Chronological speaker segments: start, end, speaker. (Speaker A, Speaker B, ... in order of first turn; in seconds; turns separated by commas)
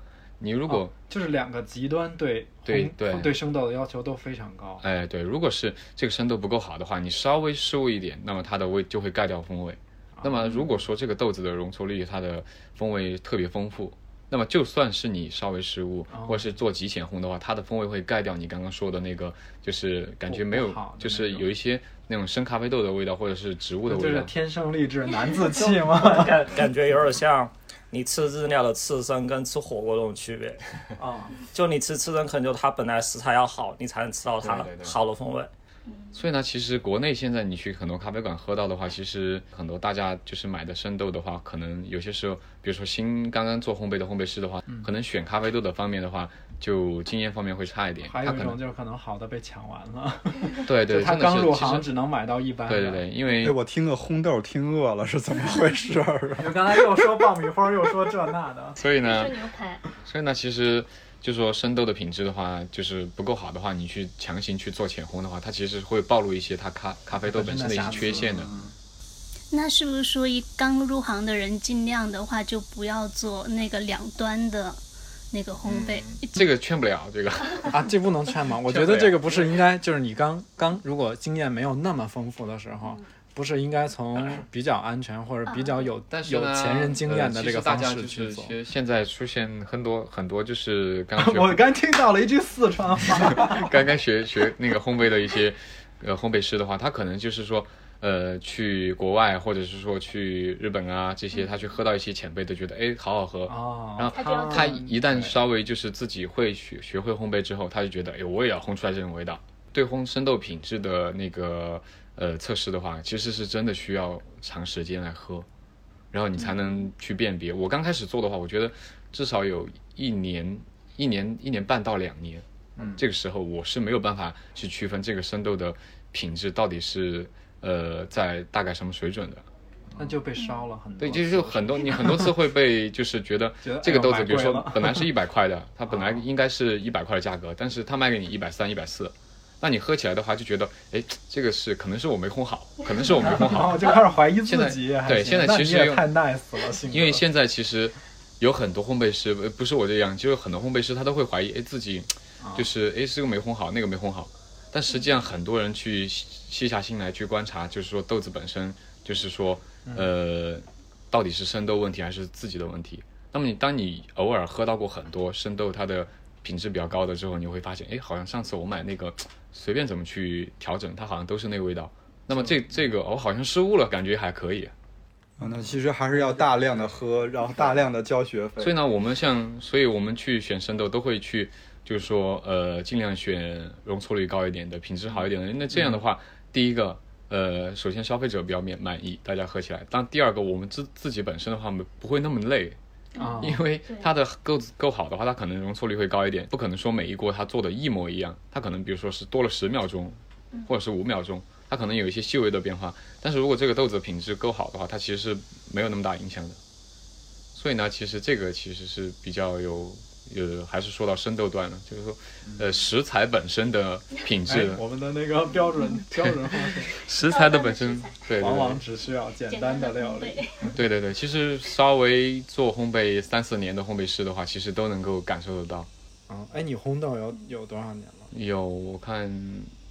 Speaker A: 0.4-0.9, Speaker B: 0.7-4.8, Speaker A: 2.7-3.3, Speaker A: 4.8-24.3, Speaker B: 10.2-10.6, Speaker B: 16.1-16.5, Speaker B: 20.2-21.5, Speaker B: 23.9-26.5, Speaker C: 25.6-30.6, Speaker B: 31.0-31.4, Speaker C: 31.5-35.5, Speaker A: 34.4-35.0, Speaker D: 35.9-36.2, Speaker A: 36.1-48.6, Speaker B: 48.0-53.0, Speaker A: 50.6-51.9, Speaker A: 52.7-53.5, Speaker E: 53.4-57.0, Speaker B: 56.4-58.8, Speaker A: 58.8-68.6, Speaker D: 59.0-59.9, Speaker B: 67.2-68.6, Speaker D: 69.5-74.8, Speaker D: 75.3-76.5, Speaker A: 75.6-77.8, Speaker B: 77.7-88.5, Speaker A: 78.6-79.6, Speaker D: 85.5-85.8, Speaker A: 86.1-91.6, Speaker B: 91.2-93.7, Speaker A: 93.3-115.5, Speaker B: 103.5-105.4, Speaker D: 104.1-104.8, Speaker A: 116.1-122.4, Speaker D: 116.4-116.7, Speaker B: 122.8-123.0, Speaker A: 123.0-129.4, Speaker B: 129.9-132.3, Speaker A: 131.0-146.1, Speaker B: 133.6-135.1, Speaker B: 135.9-136.2, Speaker B: 143.1-147.2, Speaker A: 146.9-174.7, Speaker B: 152.4-152.7, Speaker B: 159.8-160.1, Speaker E: 175.4-178.7, Speaker A: 178.6-192.8, Speaker B: 185.7-186.0, Speaker D: 193.1-194.1, Speaker B: 193.2-193.6, Speaker A: 193.4-206.6, Speaker A: 207.5-214.8, Speaker B: 214.5-216.9, Speaker A: 216.2-218.8, Speaker D: 217.2-218.2, Speaker B: 218.4-220.7, Speaker D: 219.5-220.7, Speaker A: 220.7-225.9, Speaker B: 226.3-228.3, Speaker A: 228.3-229.7